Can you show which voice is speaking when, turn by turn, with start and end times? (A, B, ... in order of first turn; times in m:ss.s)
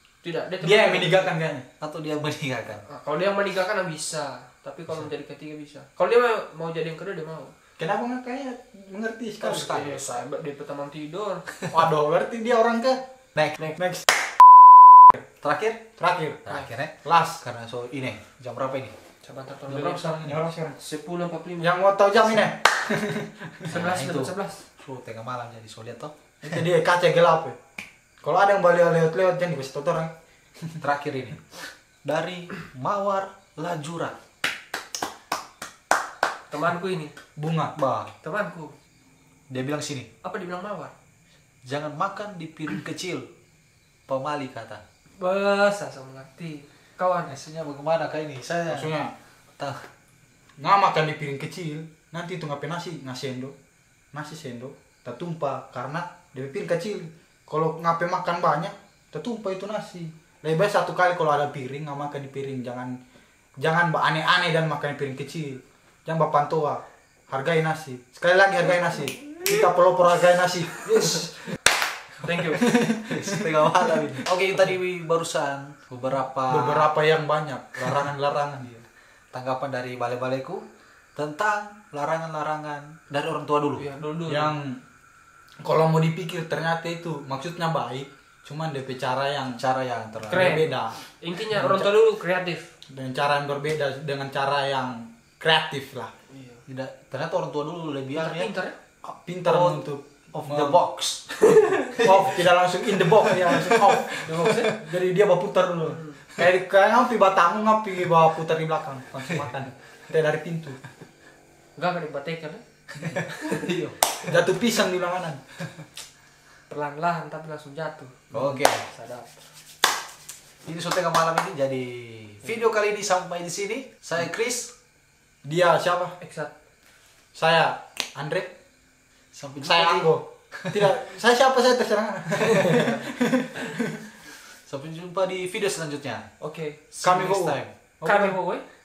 0:00.2-0:01.3 A
0:00.6-0:01.7 B
0:01.8-0:02.8 C
0:02.9-0:07.5 A
0:07.8-0:09.8 B
0:09.4-0:11.5 A
0:09.5-0:10.2 C
0:11.7-0:13.0 B
0:13.8-0:14.1 B
0:15.4-0:15.8 C
0:16.0-0:16.4 B
0:16.4-0:18.9 C
0:17.0-0:17.4 B
0:19.2-0:22.5 A
0:19.7-0:20.3 C
0:20.2-0:20.8 B
0:21.6-0:23.7 B
0:23.7-0:24.6 A
0:23.7-0:26.1 C
0:26.4-0:27.6 B
0:28.2-0:30.1 B
0:30.8-0:34.2 C
0:36.5-0:37.2 A
0:37.4-0:37.7 B
0:37.8-0:38.1 C
0:38.2-0:38.7 A
0:39.5-0:40.1 C
0:40.2-0:40.9 A
0:41.7-0:43.3 C
0:44.1-0:44.8 C
0:45.2-0:47.4 A
0:47.3-0:48.9 C
0:48.7-0:49.1 B
0:49.6-0:49.9 C
0:50.6-0:53.5 B
0:54.1-1:03.0 B
1:03.6-1:11.3 B
1:08.7-1:09.7 A
1:10.8-1:11.6 A
1:12.2-1:12.7 A
1:12.6-1:13.5 B
1:13.0-1:16.9 C
1:16.5-1:18.7 B
1:18.7-1:20.6 C
1:21.2-1:23.9 C
1:23.8-1:24.5 A
1:24.3-1:24.8 B
1:25.6-1:29.6 B
1:29.5-1:30.6 C
1:30.3-1:31.9 B
1:30.3-1:32.7 A
1:32.9-1:36.1 B
1:36.3-1:36.6 A
1:36.7-1:38.5 C
1:38.2-1:38.8 A
1:39.0-1:40.8 B
1:39.4-1:42.2 C
1:42.0-1:50.8 B
1:43.3-1:43.8 C
1:44.2-1:44.8 A
1:45.8-1:46.2 A
1:51.8-1:52.6 A
1:53.0-1:54.0 C
1:53.2-1:53.7 A
1:54.3-1:55.4 B
1:56.7-1:59.4 A
1:58.3-1:58.8 C
2:00.7-2:04.7 C
2:05.4-2:06.2 B
2:06.2-2:06.5 A
2:07.4-2:08.5 B
2:09.3-2:10.8 C
2:09.6-2:14.0 B
2:12.5-2:13.1 A
2:14.6-2:16.3 C
2:16.4-2:16.8 A
2:16.9-2:17.7 C
2:17.0-2:18.4 B
2:18.0-2:18.6 A